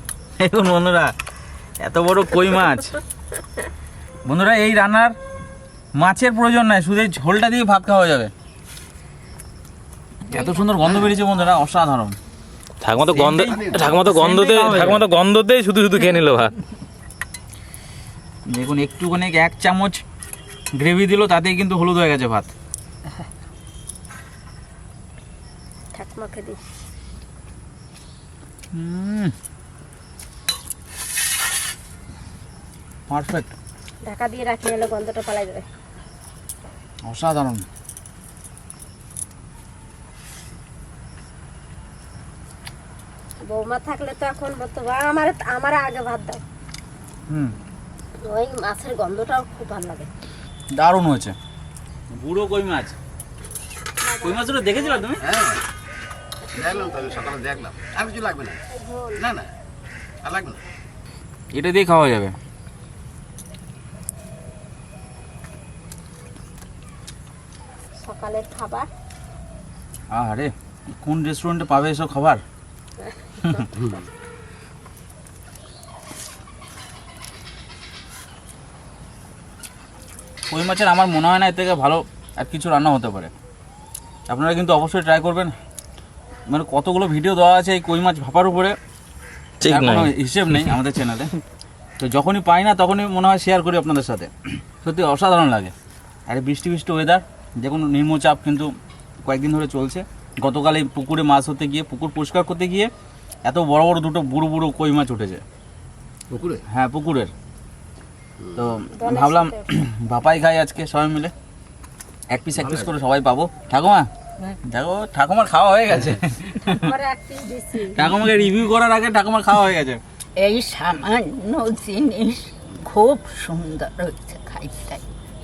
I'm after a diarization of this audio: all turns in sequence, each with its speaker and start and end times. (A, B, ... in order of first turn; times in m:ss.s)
0:00.4-0:01.1 A
0:01.8-0:02.9 A
0:04.2-0:05.2 A
0:06.0-0:08.3 A
0:10.3-0:12.2 A
0:12.8-0:16.6 B
0:13.1-0:14.1 C
0:14.0-0:15.1 A
0:18.5-0:20.0 A
0:20.8-0:22.5 A
0:25.9-0:26.6 D
0:28.7-0:29.3 A
0:33.1-0:33.5 A
0:34.0-0:35.6 D
0:37.0-0:37.7 A
0:43.4-0:46.4 D
0:47.3-0:47.6 A
0:48.2-0:50.1 D
0:50.8-0:51.4 A
0:52.1-0:53.0 A
0:54.0-0:55.1 D
0:54.2-0:55.2 A
0:55.2-0:55.6 C
0:56.5-0:57.4 D
0:56.5-0:58.6 C
0:58.7-0:59.2 D
0:59.2-0:59.5 C
1:00.2-1:00.6 C
1:01.5-1:02.4 A
1:08.0-1:08.9 D
1:10.1-1:12.4 A
1:13.2-1:13.7 D
1:20.5-1:23.3 A
1:24.3-1:25.6 A
1:26.5-1:28.8 A
1:29.6-1:30.1 B
1:29.7-1:31.3 A
1:32.0-1:35.7 A
1:36.3-1:38.7 A
1:39.2-1:42.9 A
1:43.4-1:45.4 A
1:46.3-1:46.6 C
1:46.7-1:47.3 A
1:48.6-1:51.3 A
1:48.9-1:49.7 D
1:52.3-1:54.1 A
1:52.6-1:52.9 C
1:54.7-1:56.8 A
1:56.6-1:58.2 D
1:58.0-2:00.0 A
2:00.4-2:05.0 E